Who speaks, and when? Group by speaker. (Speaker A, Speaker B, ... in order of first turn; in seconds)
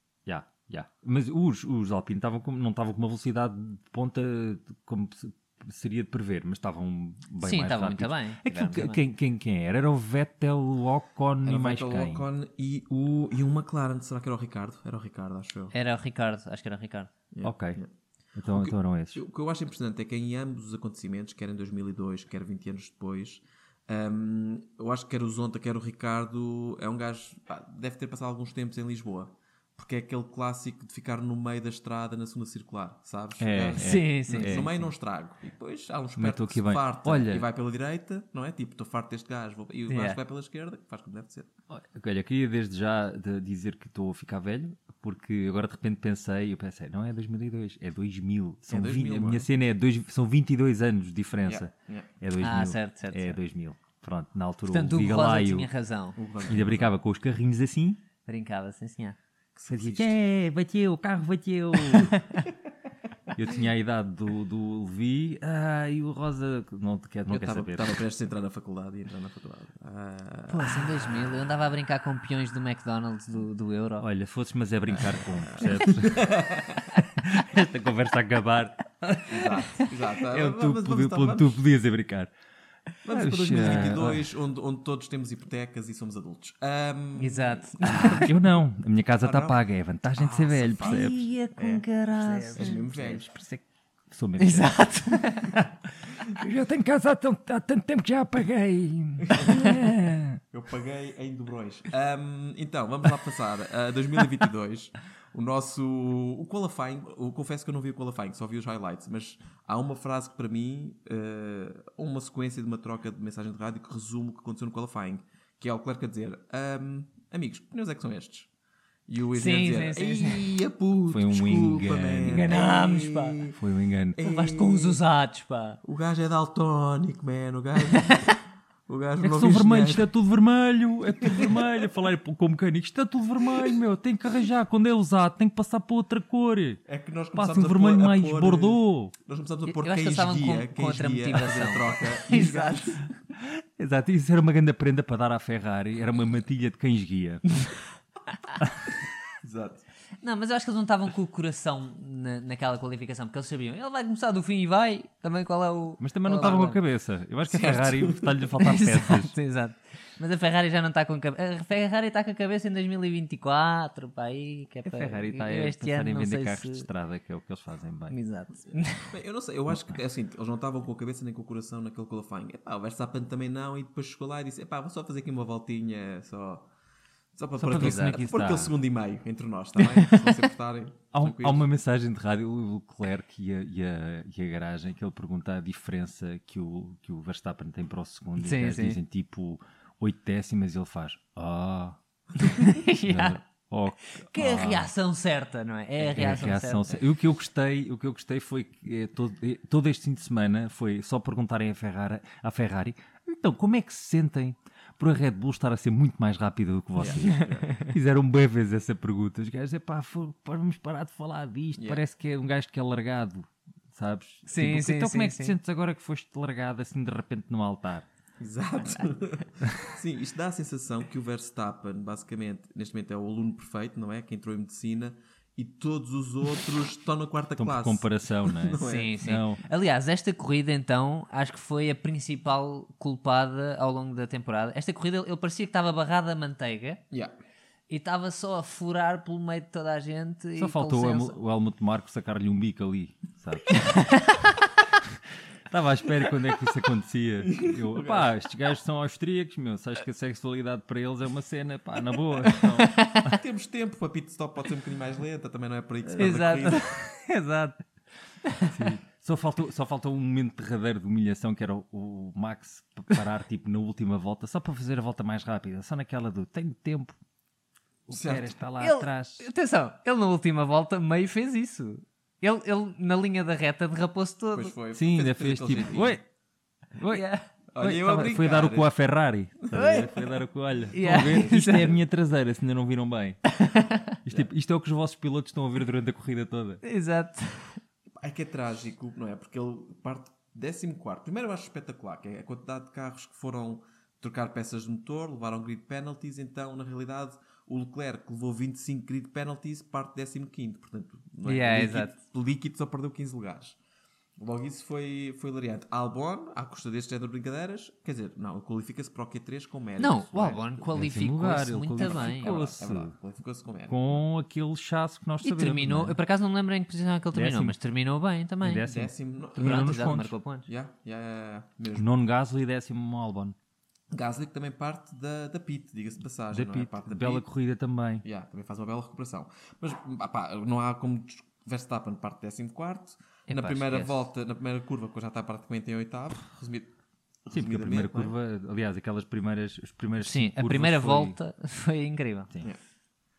Speaker A: 0.2-12.2, 17.4-17.8, 18.3-19.2, 33.4-34.9, 36.2-37.5, 41.7-55.7, 56.5-58.0, 59.7-62.2, 63.3-68.0, 74.0-76.3, 76.9-79.5, 80.3-82.3, 83.1-84.2, 87.8-91.5, 92.1-93.4, 94.1-100.4, 121.1-122.5, 123.5-124.2, 129.2-136.8, 137.3-139.1, 143.3-147.4, 156.0-159.3, 164.8-168.2, 177.6-178.8, 181.1-192.0, 193.0-194.9, 196.1-218.1, 227.6-229.6, 240.6-243.8, 245.7-253.3, 256.2-256.7, 258.7-267.1, 268.1-269.4, 274.9-276.2, 276.9-277.2, 277.8-283.4, 284.3-286.8, 310.9-313.1, 313.9-316.2, 317.3-317.8, 318.6-320.3, 321.9-323.5, 326.5-328.2, 337.5-341.4
Speaker B: 7.4-9.0, 15.7-17.1, 33.8-34.7, 39.9-40.2, 52.4-53.4, 54.7-56.2, 58.2-59.2, 70.5-74.0, 83.6-83.9, 87.2-88.3, 90.8-93.6, 94.4-95.6, 119.3-120.5, 122.2-123.4, 124.2-125.8, 127.8-128.3, 139.7-143.0, 150.2-156.8, 158.6-166.9, 168.1-169.1, 177.7-178.2, 179.8-180.4, 188.4-189.0, 192.4-193.4, 194.1-196.9, 207.0-207.9, 214.4-215.5, 228.8-237.0, 237.9-241.4, 243.7-244.6, 252.5-253.2, 256.2-257.8, 258.4-258.8, 268.8-274.7, 277.1-277.4, 279.7-280.2, 280.9-282.0, 283.5-284.1, 286.8-287.8, 301.4-302.1, 310.0-312.6, 315.4-318.9, 319.6-320.7, 333.5-334.2, 340.2-342.5
Speaker C: 11.4-15.7, 17.3-17.9, 18.5-41.5, 48.7-49.5, 51.4-52.1, 56.1-57.0, 59.5-60.2, 67.3-70.9, 75.4-76.9, 79.2-81.6, 83.0-88.5, 89.2-89.6, 90.1-91.8, 92.5-93.3, 99.2-99.8, 100.5-118.5, 119.1-123.6, 124.1-125.0, 125.8-128.3, 128.9-130.1, 136.8-143.0, 149.4-149.8, 157.5-158.4, 168.7-176.7, 177.3-181.7, 207.0-207.7, 211.8-212.0, 218.4-229.1, 247.4-248.3, 253.2-256.9, 268.1-268.6, 274.5-276.2, 277.7-278.9, 281.1-281.4, 288.2-303.8, 304.4-310.6, 312.0-314.2, 318.8-322.1, 324.1-327.4, 328.2-336.9, 337.4-338.3